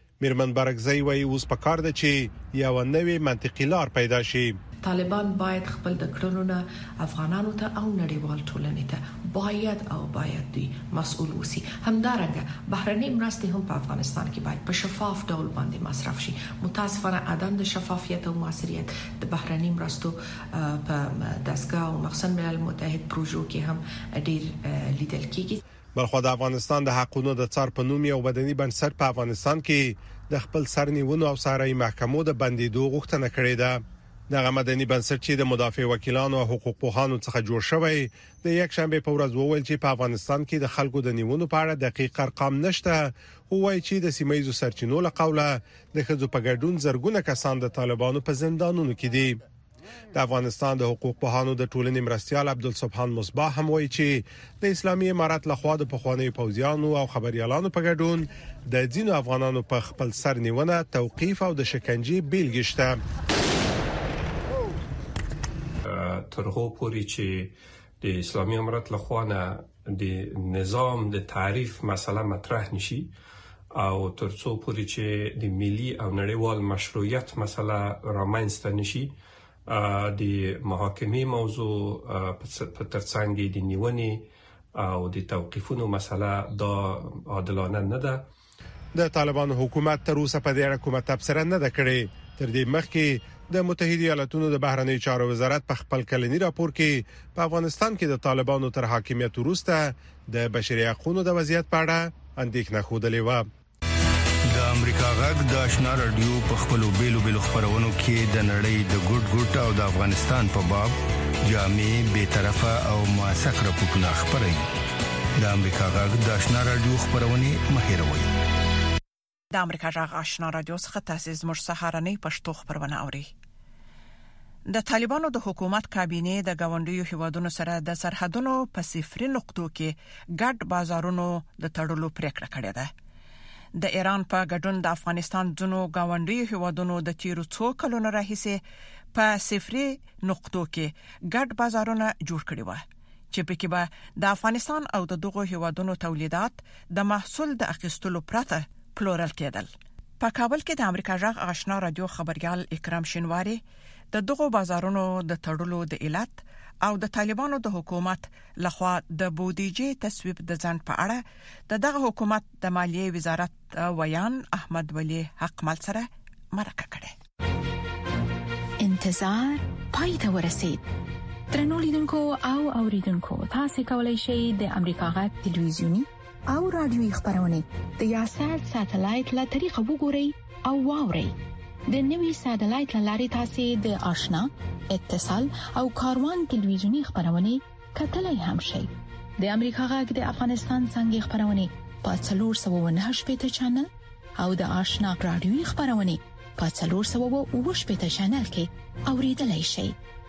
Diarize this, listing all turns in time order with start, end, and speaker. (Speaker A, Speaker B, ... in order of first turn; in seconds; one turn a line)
Speaker A: 0.2-4.6
Speaker B: 4.8-25.6
Speaker A: 26.0-49.4
Speaker A: 50.1-63.0
Speaker C: 65.8-73.1
Speaker C: 73.7-79.1
Speaker C: 79.7-84.2
Speaker C: 84.8-88.3
Speaker A: 88.9-103.5
Speaker D: 104.5-114.7
Speaker D: 115.4-118.3
Speaker E: 119.5-123.3
Speaker E: 124.7-132.9
Speaker E: 133.7-167.1
Speaker F: 168.8-170.8
Speaker F: 171.5-181.3
Speaker F: 181.9-188.9
Speaker F: 189.4-199.9